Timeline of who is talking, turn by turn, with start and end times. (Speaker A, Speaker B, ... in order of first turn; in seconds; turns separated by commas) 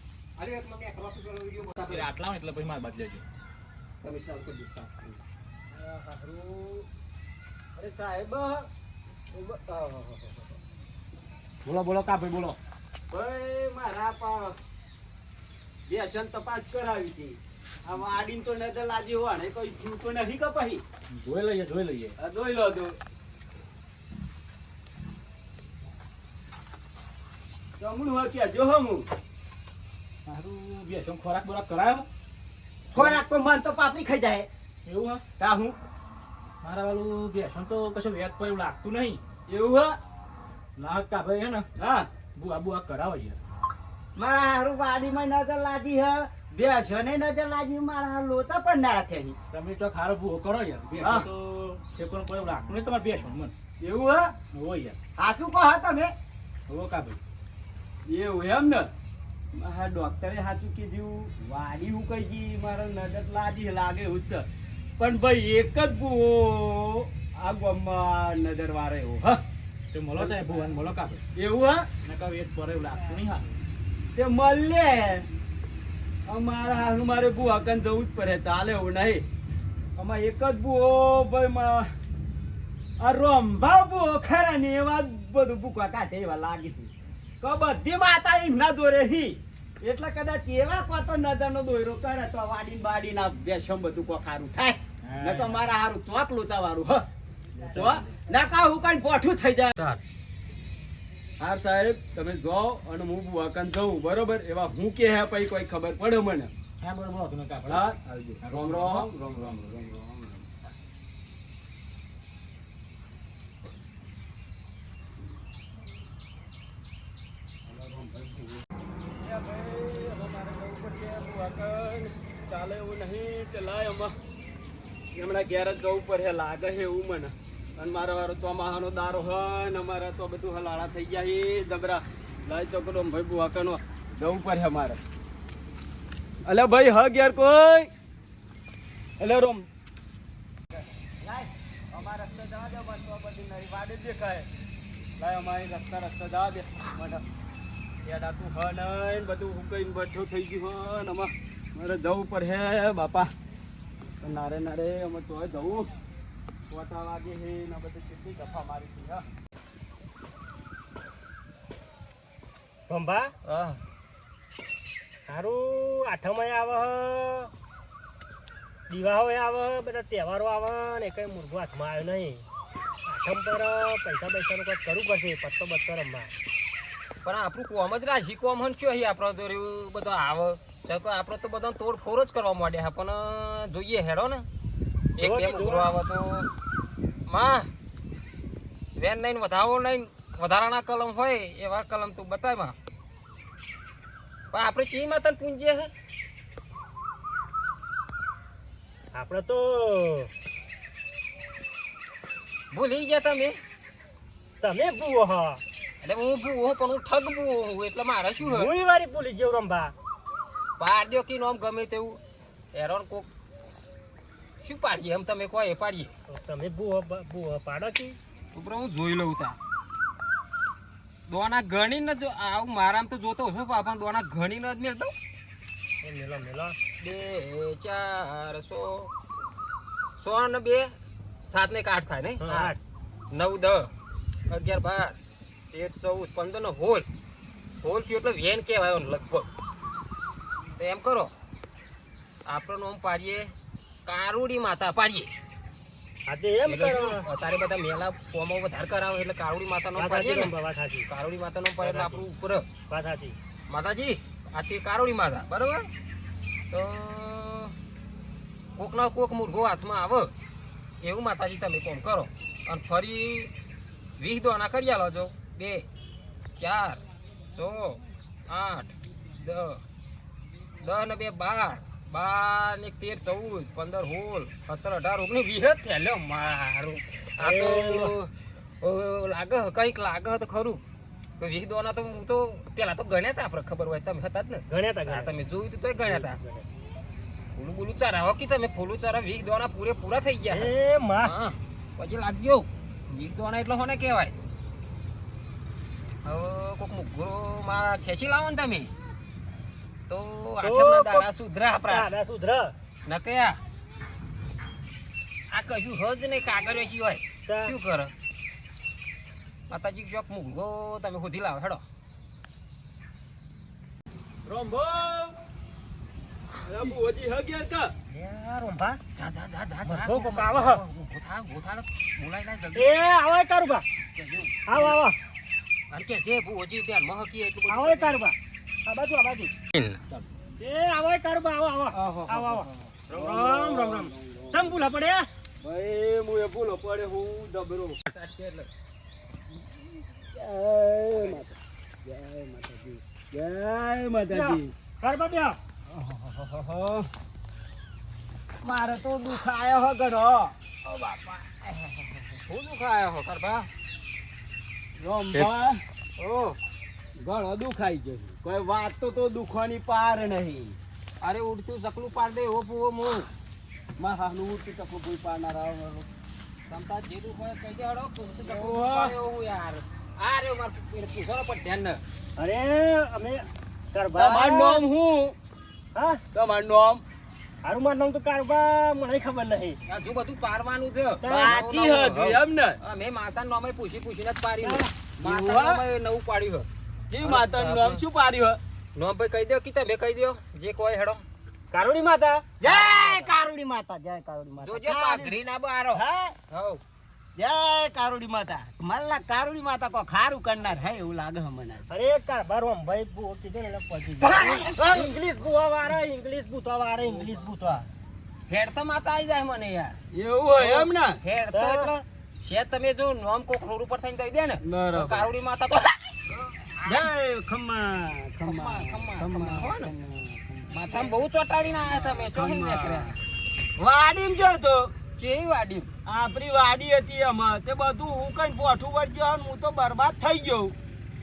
Speaker A: 0.4-2.1, Speaker B: 1.8-3.2, Speaker A: 4.0-5.2, Speaker C: 5.7-6.9, Speaker C: 7.8-8.7, Speaker C: 9.3-10.6, Speaker B: 11.7-12.6, Speaker C: 13.1-14.6, Speaker C: 15.9-20.8, Speaker B: 21.1-22.2, Speaker C: 22.2-23.0, Speaker C: 27.8-29.1, Speaker B: 30.3-32.1, Speaker C: 32.9-34.5, Speaker B: 33.0-33.2, Speaker B: 34.9-35.2, Speaker C: 35.4-35.8, Speaker B: 36.6-39.2, Speaker C: 39.5-40.0, Speaker B: 40.8-41.7, Speaker C: 41.8-42.1, Speaker B: 42.4-43.4, Speaker C: 44.2-49.4, Speaker B: 49.5-53.5, Speaker C: 51.0-51.3, Speaker C: 53.8-54.3, Speaker B: 54.5-55.0, Speaker C: 55.2-56.1, Speaker B: 56.7-57.2, Speaker C: 58.1-58.9, Speaker C: 59.5-64.5, Speaker C: 65.0-69.4, Speaker B: 69.9-71.2, Speaker C: 70.2-70.6, Speaker C: 71.3-71.9, Speaker B: 72.0-73.6, Speaker C: 74.2-75.3, Speaker C: 76.3-79.2, Speaker C: 80.0-81.9, Speaker C: 83.0-97.1, Speaker B: 95.0-95.7, Speaker B: 97.5-98.2, Speaker C: 97.7-99.9, Speaker C: 101.4-106.5, Speaker B: 106.8-109.7, Speaker C: 107.7-110.5, Speaker C: 117.7-118.6, Speaker C: 119.2-124.2, Speaker C: 125.2-135.0, Speaker C: 136.4-137.9, Speaker C: 139.2-139.7, Speaker C: 141.2-144.5, Speaker C: 145.2-147.2, Speaker C: 148.0-153.3, Speaker C: 154.2-155.9, Speaker C: 156.7-159.3, Speaker D: 162.9-163.3, Speaker A: 163.4-163.8, Speaker D: 165.3-167.5, Speaker D: 168.9-172.4, Speaker D: 173.1-176.3, Speaker A: 177.2-184.5, Speaker A: 185.2-186.5, Speaker D: 185.2-185.9, Speaker A: 187.3-187.7, Speaker A: 189.0-192.8, Speaker A: 194.5-195.9, Speaker D: 199.1-200.3, Speaker A: 202.7-203.6, Speaker D: 204.6-205.6, Speaker A: 206.0-208.7, Speaker D: 208.4-209.9, Speaker A: 210.8-212.2, Speaker A: 212.7-213.3, Speaker A: 214.6-216.1, Speaker D: 216.3-218.2, Speaker A: 218.5-219.6, Speaker A: 221.3-225.1, Speaker D: 226.0-226.8, Speaker A: 227.0-229.1, Speaker A: 230.2-230.9, Speaker A: 231.4-232.8, Speaker D: 232.4-232.8, Speaker A: 233.3-233.9, Speaker A: 234.5-235.2, Speaker A: 235.7-237.1, Speaker A: 237.8-239.5, Speaker A: 240.8-241.3, Speaker A: 242.5-243.5, Speaker A: 244.1-245.3, Speaker D: 246.3-247.2, Speaker A: 246.7-250.5, Speaker D: 250.0-251.1, Speaker A: 251.1-252.7, Speaker D: 251.8-252.2, Speaker D: 252.9-253.4, Speaker A: 253.7-255.9, Speaker A: 256.7-257.8, Speaker A: 258.8-260.3, Speaker A: 261.0-263.5, Speaker A: 264.2-265.9, Speaker A: 266.6-269.8, Speaker A: 270.8-280.8, Speaker D: 277.4-278.1, Speaker A: 281.4-286.4, Speaker D: 284.7-285.3, Speaker D: 286.1-286.7, Speaker A: 287.6-294.4, Speaker D: 290.5-291.3, Speaker A: 296.2-298.9, Speaker A: 300.1-302.1, Speaker D: 300.6-301.3, Speaker D: 301.9-302.7, Speaker A: 303.1-303.6, Speaker A: 305.5-308.1, Speaker D: 307.5-307.8, Speaker A: 309.7-311.8, Speaker C: 314.5-315.4, Speaker C: 316.6-317.9, Speaker D: 318.1-319.0, Speaker A: 319.2-322.9, Speaker D: 319.9-320.8, Speaker D: 322.8-323.9, Speaker A: 324.2-325.0, Speaker D: 324.7-325.2, Speaker A: 325.9-328.2, Speaker D: 327.7-329.5, Speaker D: 330.6-335.3, Speaker C: 331.9-334.8, Speaker C: 335.6-338.0, Speaker A: 338.1-338.7, Speaker C: 340.2-344.7, Speaker D: 344.3-345.6, Speaker C: 345.9-347.1, Speaker C: 348.6-350.5, Speaker A: 350.9-353.7, Speaker C: 355.0-355.8, Speaker A: 356.2-356.6, Speaker C: 357.2-360.8, Speaker A: 361.2-363.3, Speaker C: 364.0-366.1, Speaker A: 366.7-372.0, Speaker C: 368.4-369.1, Speaker D: 372.4-374.8, Speaker C: 374.1-375.4, Speaker D: 375.9-376.2, Speaker C: 376.3-377.0, Speaker D: 377.6-379.8, Speaker A: 379.9-386.7, Speaker D: 381.2-381.6, Speaker C: 381.3-382.8, Speaker D: 384.6-384.9, Speaker C: 385.2-385.8, Speaker C: 387.1-388.6, Speaker A: 387.2-388.0, Speaker A: 389.0-391.2, Speaker D: 391.7-392.5, Speaker C: 392.6-395.4, Speaker A: 392.6-393.3, Speaker A: 394.6-396.8, Speaker C: 395.9-396.4, Speaker C: 397.4-401.9, Speaker D: 401.9-407.9, Speaker A: 404.2-404.8, Speaker C: 404.8-405.1, Speaker A: 408.5-409.9, Speaker C: 410.1-411.2, Speaker A: 410.6-417.1, Speaker D: 411.5-411.9, Speaker C: 414.6-415.3, Speaker C: 416.9-421.2, Speaker A: 418.4-419.9, Speaker A: 420.7-423.2, Speaker C: 421.9-423.2, Speaker C: 423.8-424.9, Speaker A: 425.2-425.9, Speaker C: 426.1-430.7